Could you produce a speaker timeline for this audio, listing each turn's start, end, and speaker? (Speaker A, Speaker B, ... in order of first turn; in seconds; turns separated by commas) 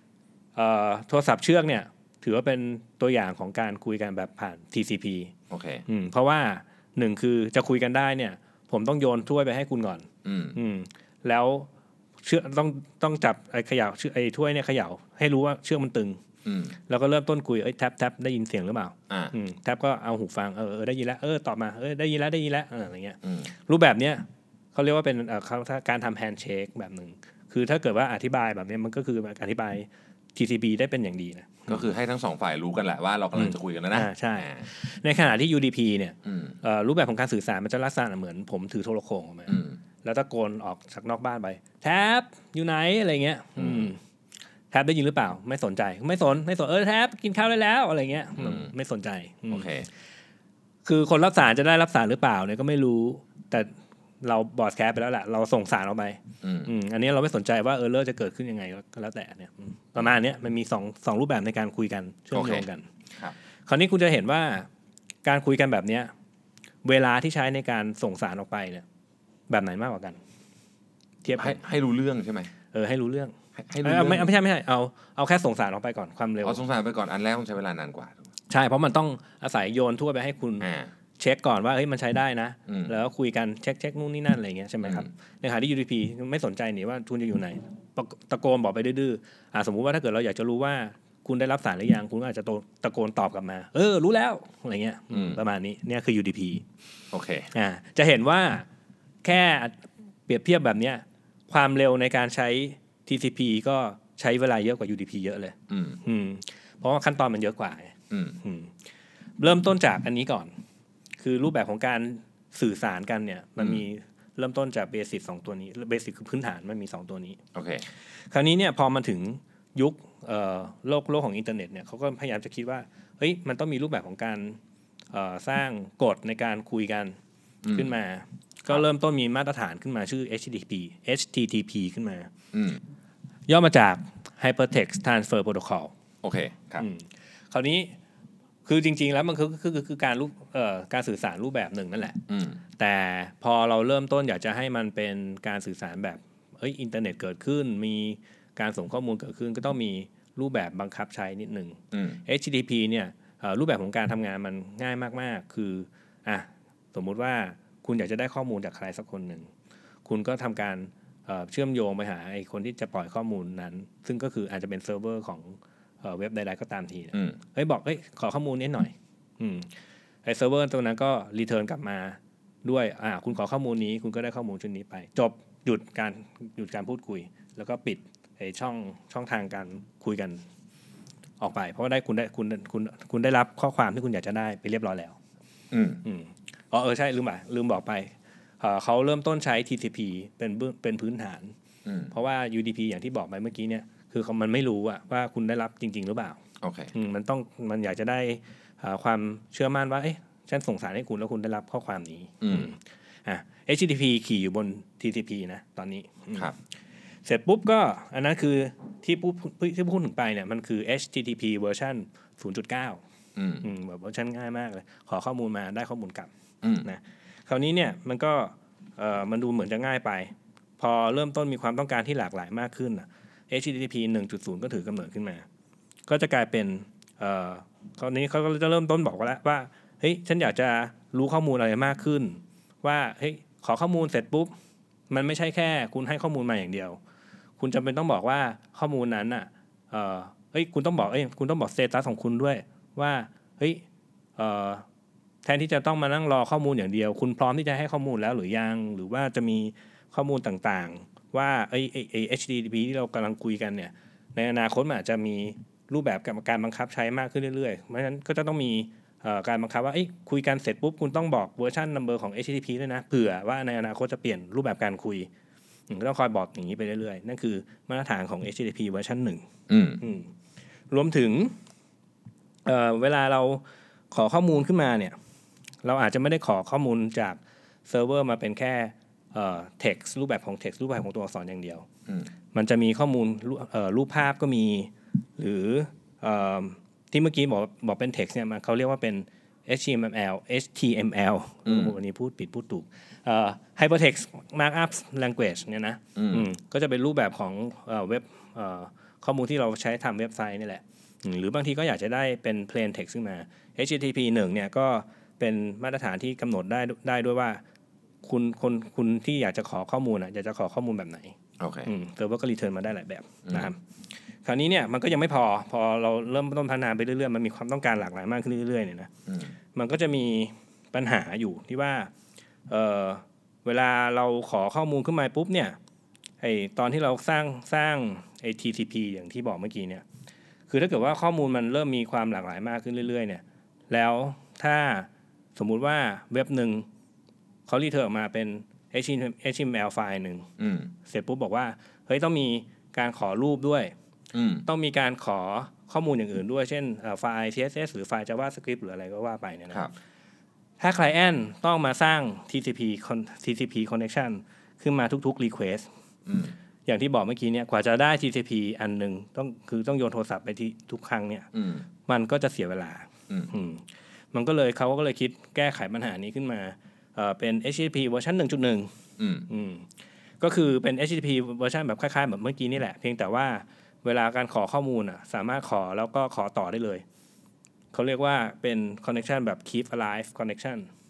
Speaker A: 0.6-5.3, Speaker B: 5.5-5.8, Speaker A: 5.9-11.7, Speaker B: 10.2-10.6, Speaker A: 12.2-16.2, Speaker B: 16.4-16.8, Speaker A: 16.9-31.8, Speaker B: 19.1-19.3, Speaker B: 23.2-23.5, Speaker B: 31.7-34.7, Speaker A: 33.3-44.0, Speaker B: 36.2-36.5, Speaker B: 39.5-39.8, Speaker B: 43.6-43.9, Speaker A: 44.7-49.7, Speaker B: 48.4-48.7, Speaker B: 49.5-49.9, Speaker A: 50.8-62.9, Speaker B: 56.4-56.7, Speaker B: 62.3-63.4, Speaker A: 63.6-64.7, Speaker A: 65.2-66.1, Speaker A: 66.8-68.8, Speaker A: 69.5-70.2, Speaker A: 71.2-71.6, Speaker B: 71.3-72.5, Speaker A: 72.7-76.6, Speaker B: 73.5-74.3, Speaker B: 76.4-78.3, Speaker A: 78.5-96.6, Speaker B: 80.6-80.9, Speaker B: 82.7-82.9, Speaker B: 95.1-95.4, Speaker B: 97.1-97.5, Speaker A: 97.5-98.7, Speaker A: 99.2-108.8, Speaker B: 105.7-106.0, Speaker B: 108.1-108.4, Speaker A: 109.4-110.5, Speaker A: 111.2-117.4, Speaker B: 117.5-117.8, Speaker A: 118.1-124.6, Speaker A: 125.1-127.2, Speaker B: 127.6-127.9, Speaker A: 127.7-132.3, Speaker B: 132.5-132.8, Speaker A: 133.5-135.9, Speaker B: 136.2-136.9, Speaker A: 136.8-137.9, Speaker A: 138.6-142.2, Speaker B: 142.3-142.6, Speaker A: 142.8-159.5, Speaker B: 151.9-152.2, Speaker A: 160.0-169.7, Speaker B: 167.1-167.4, Speaker A: 170.2-180.4, Speaker A: 181.4-185.2, Speaker B: 185.7-186.0, Speaker A: 186.0-191.5, Speaker B: 191.8-192.1, Speaker A: 192.1-196.4, Speaker B: 196.6-196.9, Speaker A: 196.9-206.5, Speaker B: 202.4-202.7, Speaker A: 207.2-213.0, Speaker B: 213.3-213.7, Speaker A: 213.6-216.3, Speaker B: 216.6-216.9, Speaker A: 216.8-225.4, Speaker A: 226.1-234.5, Speaker A: 235.1-237.0, Speaker A: 237.6-243.8, Speaker A: 244.4-244.8, Speaker A: 245.4-265.3, Speaker A: 265.9-269.4, Speaker B: 269.7-270.0, Speaker A: 270.0-270.3, Speaker A: 270.9-271.6, Speaker A: 272.6-275.1, Speaker A: 275.8-281.9, Speaker A: 282.5-307.6, Speaker B: 291.6-291.9, Speaker B: 296.1-296.5, Speaker A: 308.2-313.8, Speaker B: 311.6-311.9, Speaker B: 313.4-313.7, Speaker A: 314.4-319.1, Speaker B: 319.3-319.5, Speaker A: 319.7-322.1, Speaker A: 322.7-325.8, Speaker A: 326.4-330.0, Speaker A: 330.7-336.9, Speaker A: 337.7-340.5, Speaker B: 340.6-340.9, Speaker A: 341.0-343.9, Speaker B: 344.3-344.7, Speaker A: 344.6-349.9, Speaker A: 350.8-355.9, Speaker B: 356.2-356.5, Speaker A: 356.9-368.9, Speaker B: 361.5-361.9, Speaker B: 369.2-369.5, Speaker A: 369.5-369.9, Speaker A: 370.4-377.0, Speaker A: 377.9-380.9